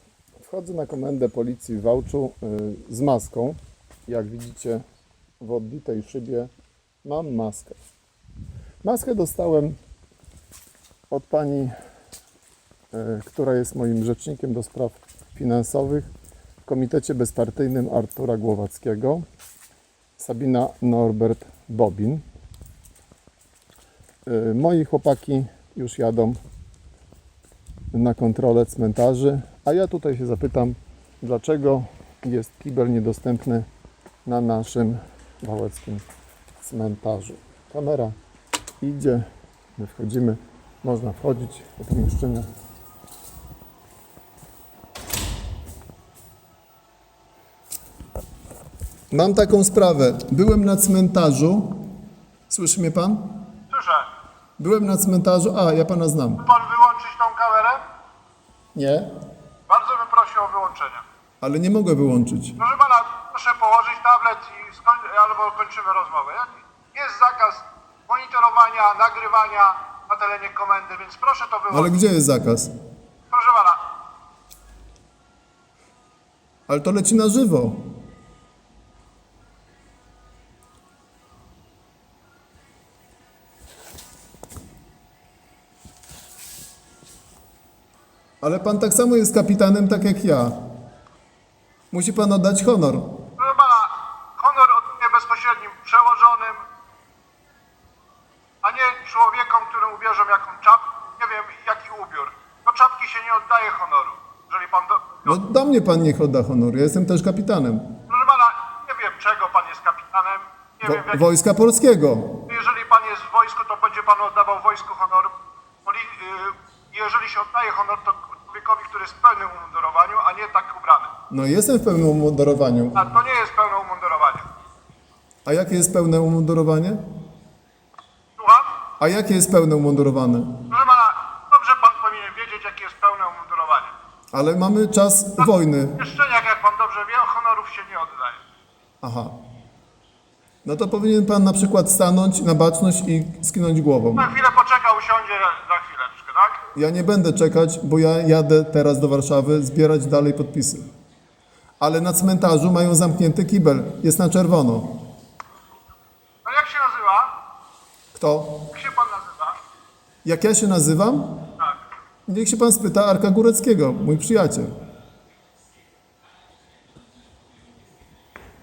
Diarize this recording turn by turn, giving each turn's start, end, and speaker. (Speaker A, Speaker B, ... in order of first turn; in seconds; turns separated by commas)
Speaker A: 0.4-4.8, Speaker A: 5.4-6.5, Speaker A: 7.0-7.8, Speaker A: 8.8-9.8, Speaker A: 11.1-11.7, Speaker A: 12.9-16.1, Speaker A: 16.6-19.2, Speaker A: 20.2-22.2, Speaker A: 24.2-26.4, Speaker A: 27.9-33.7, Speaker A: 34.2-36.0, Speaker A: 36.6-38.1, Speaker A: 38.8-42.5, Speaker A: 49.1-51.9, Speaker A: 52.5-53.4, Speaker B: 53.7-54.1, Speaker A: 54.6-56.4, Speaker B: 56.4-57.8, Speaker A: 58.7-59.1, Speaker B: 59.7-61.0, Speaker A: 61.4-62.6, Speaker B: 62.6-72.0, Speaker A: 71.7-72.7, Speaker B: 73.3-73.9, Speaker A: 76.7-77.9, Speaker A: 88.4-90.5, Speaker A: 91.9-93.2, Speaker B: 93.4-96.6, Speaker B: 98.6-105.4, Speaker A: 105.2-108.0, Speaker B: 108.1-111.2, Speaker A: 110.8-112.4, Speaker B: 112.5-115.3, Speaker B: 115.8-121.1, Speaker A: 121.3-123.0, Speaker B: 122.9-124.5, Speaker A: 125.4-127.0, Speaker B: 128.4-128.8, Speaker A: 129.0-130.6, Speaker B: 130.7-133.9, Speaker A: 134.3-136.0, Speaker B: 135.4-138.4, Speaker A: 139.0-139.3, Speaker A: 140.6-144.3, Speaker B: 144.1-146.6, Speaker A: 146.7-150.9, Speaker A: 151.8-155.0, Speaker B: 156.4-157.3, Speaker A: 158.1-158.7, Speaker B: 158.7-159.6, Speaker A: 160.2-161.5, Speaker B: 161.6-161.8, Speaker A: 162.3-164.7